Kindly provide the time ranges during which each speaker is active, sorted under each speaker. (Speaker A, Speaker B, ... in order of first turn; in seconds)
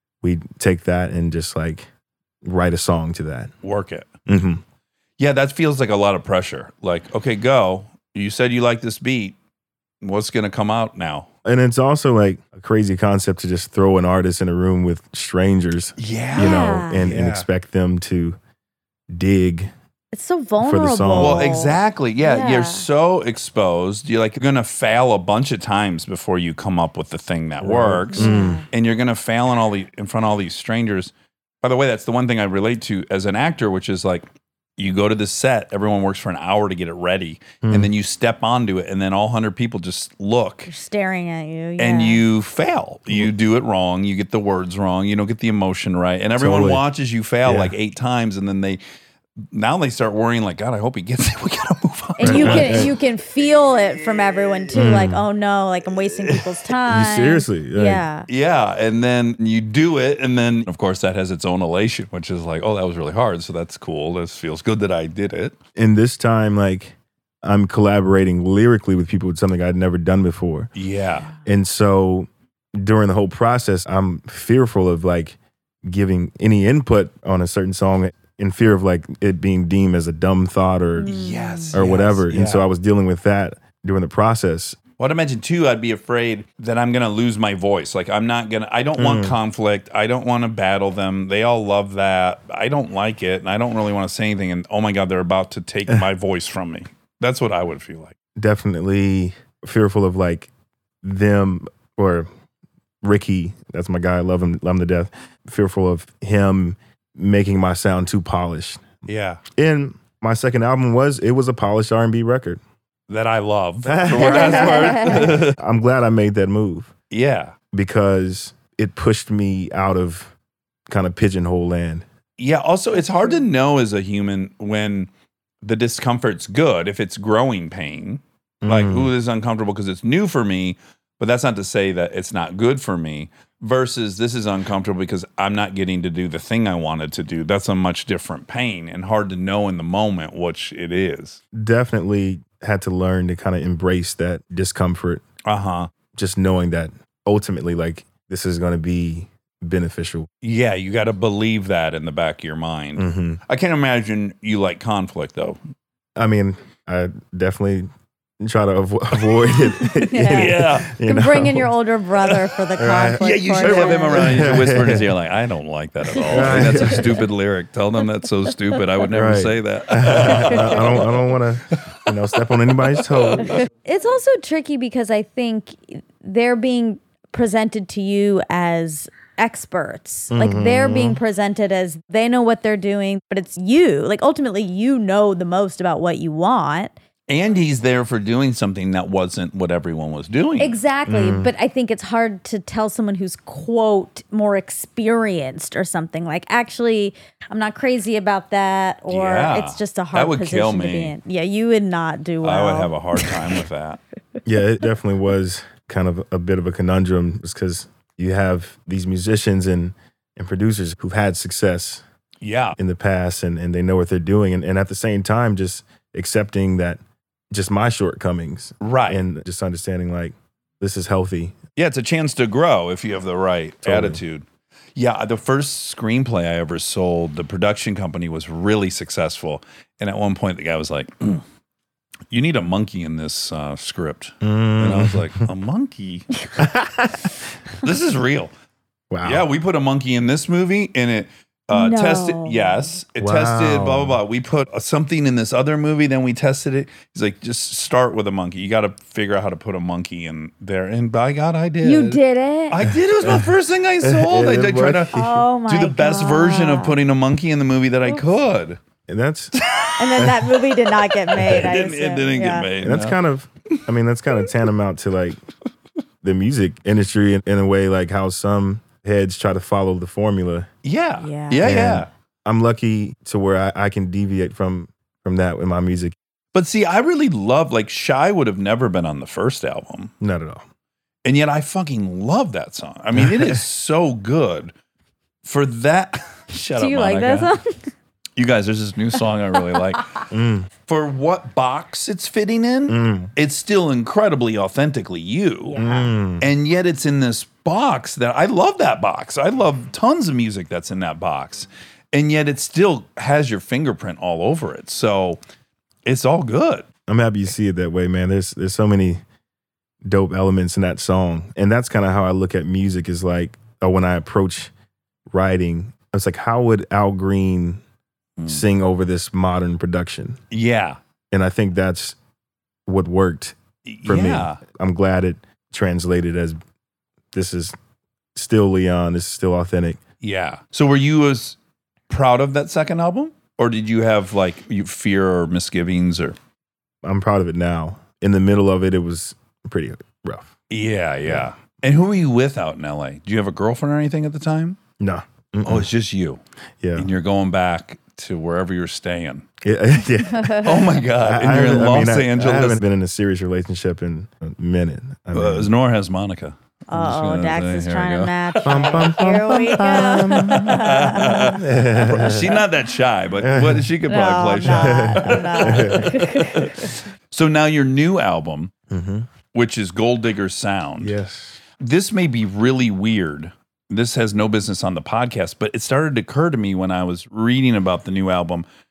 Speaker A: 0.2-1.9, 2.4-3.5, 4.3-4.6, 11.4-18.4, 19.1-19.7, 20.6-21.5, 27.6-28.6, 37.6-37.9, 46.4-46.8, 47.4-47.7, 52.2-52.9, 54.7-55.2, 56.9-58.0, 65.8-70.7, 71.4-81.2, 81.7-84.8, 89.0-89.4, 98.4-100.5, 101.0-102.3, 103.0-109.0, 109.5-112.6, 113.8-116.9, 117.7-120.3, 120.9-122.0, 128.6-129.1, 141.5-145.2, 146.1-150.3, 153.0-153.4, 156.2-157.9, 158.4-161.7, 162.8-165.1, 166.3-167.2, 169.1-173.6, 180.3-181.2, 191.1-191.5, 204.4-212.0, 212.8-217.0, 217.5-221.6, 223.8-224.2, 234.4-235.4, 236.6-237.3, 239.1-239.5, 243.2-244.2, 253.2-253.5, 254.0-255.4, 259.1-259.6, 260.2-260.5, 262.8-265.4, 266.2-270.7, 271.6-276.1, 280.2-280.6, 283.1-283.6, 290.3-290.7, 292.9-293.3, 295.8-296.5, 307.1-309.2, 310.0-314.7, 315.3-317.8, 318.5-320.4, 321.3-322.2, 322.9-326.6, 327.3-327.8, 328.4-330.0, 337.0-340.5, 345.0-345.9, 346.8-347.1, 349.6-355.7, 358.6-360.9, 361.5-362.5, 363.4-363.9, 364.6-366.2, 368.9-369.3, 371.0-371.6
Speaker B: 3.6-4.1, 5.2-9.4, 10.0-11.3, 16.0-17.5, 21.2-34.3, 34.8-40.7, 41.8-48.8, 49.5-53.0, 58.3-65.5, 70.8-71.3, 81.1-82.7, 85.0-98.2, 109.1-109.4, 113.1-115.6, 117.1-117.6, 122.4-125.1, 125.6-141.4, 145.4-145.9, 150.4-155.6, 160.3-160.9, 163.2-171.1, 171.8-172.1, 173.1-173.5, 187.3-190.8, 199.1-201.2, 202.4-204.0, 212.4-212.8, 218.8-219.2, 221.8-224.4, 225.0-231.4, 232.3-236.3, 237.8-238.5, 239.2-258.8, 259.6-260.4, 261.3-263.2, 270.8-272.1, 276.5-280.1, 281.2-284.7, 285.4-287.5, 288.4-290.2, 290.9-295.8, 296.4-305.4, 306.1-306.9, 318.4-318.6, 320.5-321.0, 323.9-324.6, 330.2-331.6, 332.1-336.4, 340.7-344.8, 345.6-346.4, 347.0-349.5, 350.6-352.8, 355.3-358.4, 360.3-368.7, 369.5-371.1, 371.8-378.6
Speaker C: 16.4-17.1, 20.1-22.9, 28.1-28.7, 40.7-42.2, 52.2-58.3, 81.0-81.8, 114.2-115.3, 160.0-164.6, 170.4-170.7, 173.8-186.9, 190.6-203.5, 241.7-242.9, 251.8-252.8, 255.1-257.0, 260.0-262.7, 271.2-271.7, 286.7-287.9, 295.7-296.1, 350.3-350.8, 356.9-361.6, 364.1-366.9